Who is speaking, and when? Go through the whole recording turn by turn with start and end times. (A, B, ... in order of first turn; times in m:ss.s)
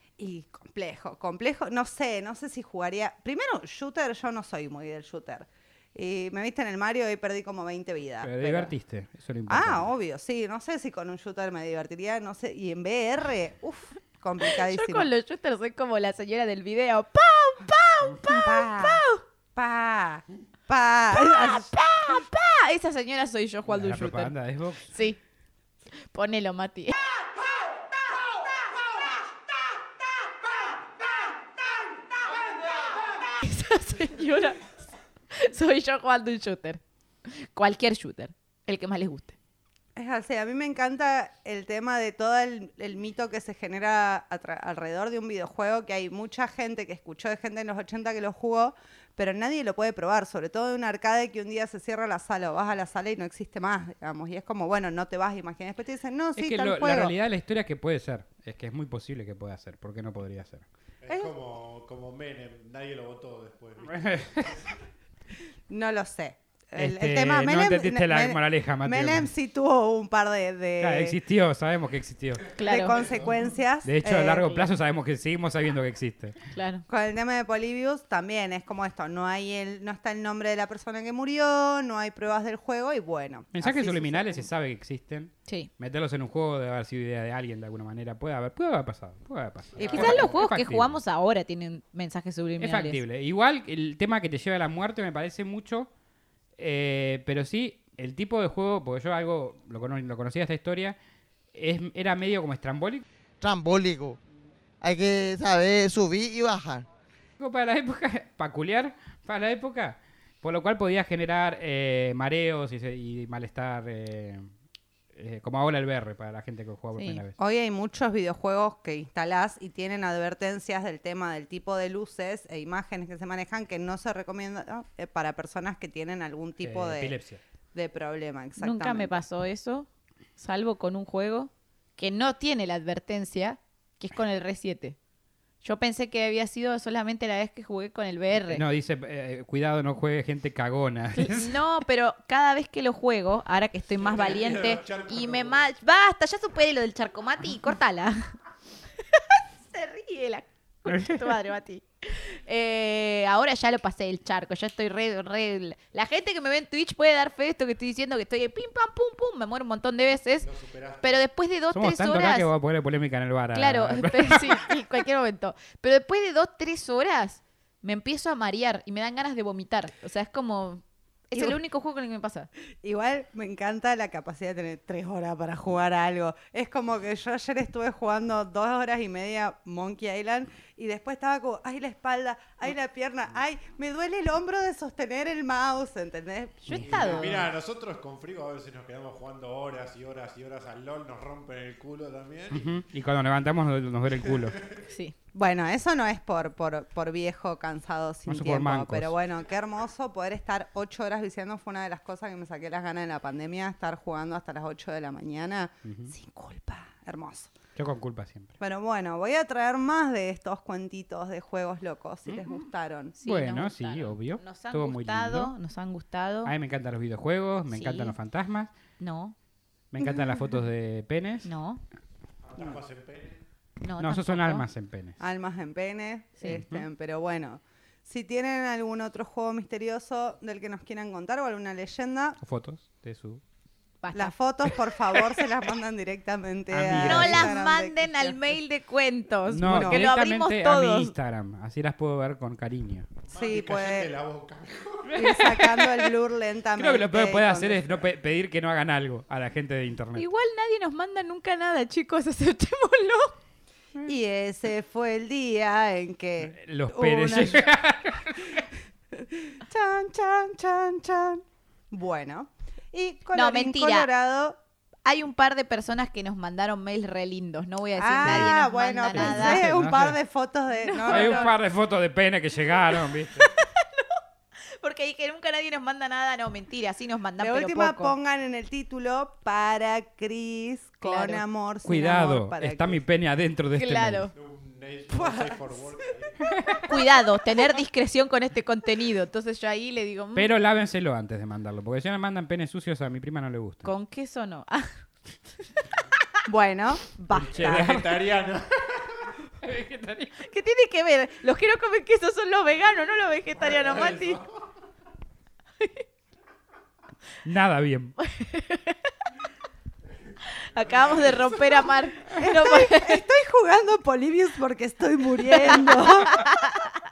0:00.2-0:08.7 A
0:08.2-0:09.9 B
0:09.5-0:15.1 A
0:14.4-0:19.2 C
0:18.3-0:22.2 A
0:21.1-0:24.3 C
0:23.7-0:24.9 B
0:24.9-0:25.2 C
0:26.1-0:27.0 C
0:33.3-0:34.7 C
0:35.3-0:39.4 C
0:40.0-0:57.1 A
0:56.4-1:00.6 B
1:01.0-1:04.7 D
1:01.1-1:01.4 A
1:03.9-1:04.6 B
1:05.7-1:11.2 A
1:06.8-1:09.3 B
1:10.8-1:12.5 B
1:12.6-1:13.0 C
1:12.6-1:14.7 A
1:13.0-1:13.3 D
1:13.8-1:16.4 B
1:16.5-1:16.8 C
1:16.9-1:24.5 A
1:23.5-1:31.0 B
1:29.8-1:30.4 D
1:29.9-1:33.0 C
1:32.6-1:35.9 B
1:36.6-1:41.0 B
1:41.5-1:43.0 B
1:43.4-1:44.2 E
1:44.8-1:46.8 E
1:47.4-1:54.5 B
1:55.1-1:57.4 B
1:57.0-1:57.2 C
1:57.4-2:07.2 A
2:06.6-2:07.4 B
2:07.7-2:09.2 A
2:08.6-2:15.0 C
2:15.6-2:18.6 C
2:18.5-2:21.6 B
2:21.2-2:28.3 C
2:24.0-2:25.6 D
2:29.1-2:40.5 C
2:30.9-2:31.3 B
2:40.4-2:41.2 D
2:41.0-2:42.5 C
2:41.7-2:44.7 B
2:43.5-2:52.5 C
2:52.8-3:07.3 A
3:06.6-3:07.5 C
3:06.8-3:12.7 D
3:12.5-3:14.6 B
3:14.3-3:14.6 D
3:14.9-3:15.2 C
3:15.3-3:27.5 A
3:18.3-3:19.1 B
3:25.8-3:26.1 B
3:27.8-3:28.5 B
3:28.6-3:33.2 A
3:32.3-3:32.6 B
3:33.2-3:36.5 C
3:33.2-3:35.5 B
3:36.4-3:38.7 B
3:37.7-3:38.2 C
3:39.0-3:39.4 C
3:39.9-3:41.5 B
3:40.0-3:40.5 A
3:41.4-3:41.8 C
3:42.4-3:43.4 D
3:43.8-3:44.6 C
3:44.0-3:45.2 B
3:45.2-3:52.4 A
3:46.5-3:46.8 B
3:52.4-3:53.4 B
3:54.0-3:54.3 C
3:54.1-3:58.4 A
3:56.7-3:57.5 B
3:57.0-4:01.1 C
3:59.5-4:03.1 B
3:59.7-4:00.1 A
4:03.3-4:05.4 D
4:03.3-4:04.1 A
4:05.1-4:06.1 B
4:05.1-4:08.1 A
4:06.8-4:10.3 B
4:10.2-4:13.4 C
4:14.0-4:17.7 A
4:16.5-4:18.7 B
4:19.1-4:24.6 A
4:23.3-4:24.1 C
4:25.0-4:29.6 C
4:28.0-4:31.5 A
4:28.2-4:28.6 B
4:29.1-4:30.2 B
4:30.8-4:31.5 C
4:31.1-4:33.5 B
4:33.3-4:34.2 C
4:34.8-4:38.1 C
4:37.4-4:43.0 A
4:41.0-4:41.4 C
4:41.8-4:44.3 B
4:43.8-4:44.3 C
4:44.4-4:46.8 D
4:45.1-4:45.8 A
4:46.8-4:50.5 C
4:50.4-4:53.9 B
4:53.8-4:55.0 C
4:56.5-4:58.0 A
4:57.3-4:59.4 D
4:57.3-4:58.2 B
4:59.6-5:00.4 B
5:00.4-5:04.4 C
5:03.6-5:04.6 D
5:05.8-5:06.0 C
5:07.4-5:08.2 B
5:08.2-5:09.1 C
5:10.4-5:13.2 C
5:10.8-5:11.6 D
5:12.4-5:16.5 A
5:15.6-5:17.0 C